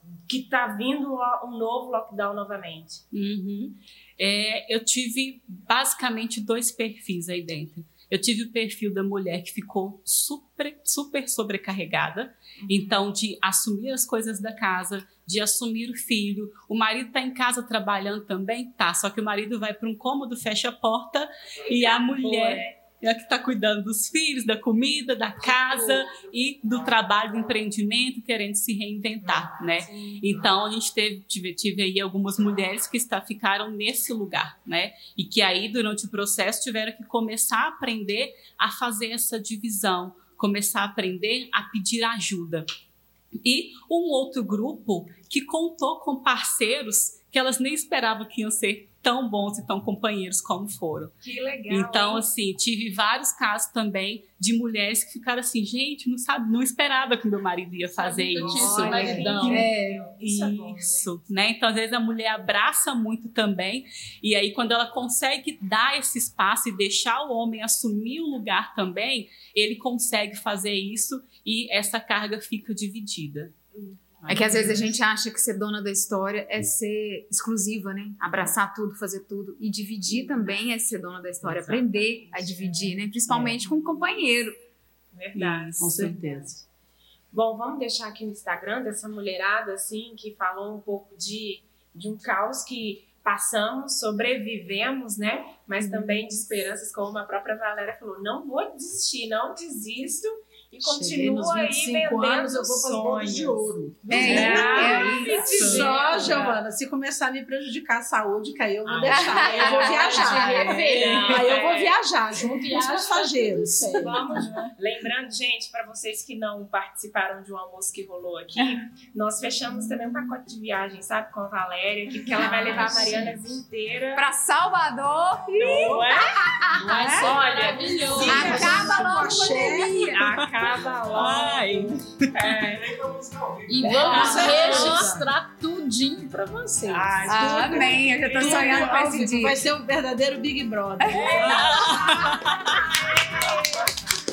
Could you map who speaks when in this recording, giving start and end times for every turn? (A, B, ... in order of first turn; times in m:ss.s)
0:00.2-0:03.0 A
0:03.1-0:42.7 B
0:12.6-0:13.0 A
0:21.7-0:22.6 A
0:29.9-0:30.2 A
0:43.4-0:51.1 B
0:51.2-0:52.3 A
0:51.7-1:13.5 B
0:58.0-1:01.1 A
0:58.4-0:59.7 C
0:58.8-0:59.4 D
0:59.5-1:00.1 E
1:14.2-1:14.9 C
1:14.3-1:24.6 E
1:20.1-1:20.4 A
1:21.8-1:22.7 A
1:23.3-1:23.6 D
1:25.1-1:26.5 A
1:25.4-1:25.9 B
1:25.8-1:26.6 D
1:27.3-1:46.6 A
1:40.8-1:54.4 D
1:44.1-1:46.0 E
1:44.1-1:46.5 C
1:45.2-1:45.9 B
1:48.9-1:52.0 A
1:49.1-1:50.9 E
1:49.4-1:51.6 C
1:52.4-1:54.7 C
1:54.0-2:04.2 A
2:02.4-2:03.2 E
2:02.4-2:03.3 C
2:04.2-2:07.3 E
2:05.6-2:13.0 A
2:06.7-2:08.9 C
2:08.1-2:10.0 D
2:08.2-2:10.2 E
2:10.2-2:12.8 B
2:12.9-2:15.3 D
2:13.7-2:17.2 C
2:14.0-2:15.1 A
2:16.9-2:19.0 A
2:17.2-2:22.0 D
2:17.2-2:19.6 E
2:21.0-2:21.4 E
2:21.1-2:23.9 A
2:21.4-2:23.0 B
2:22.0-2:22.4 E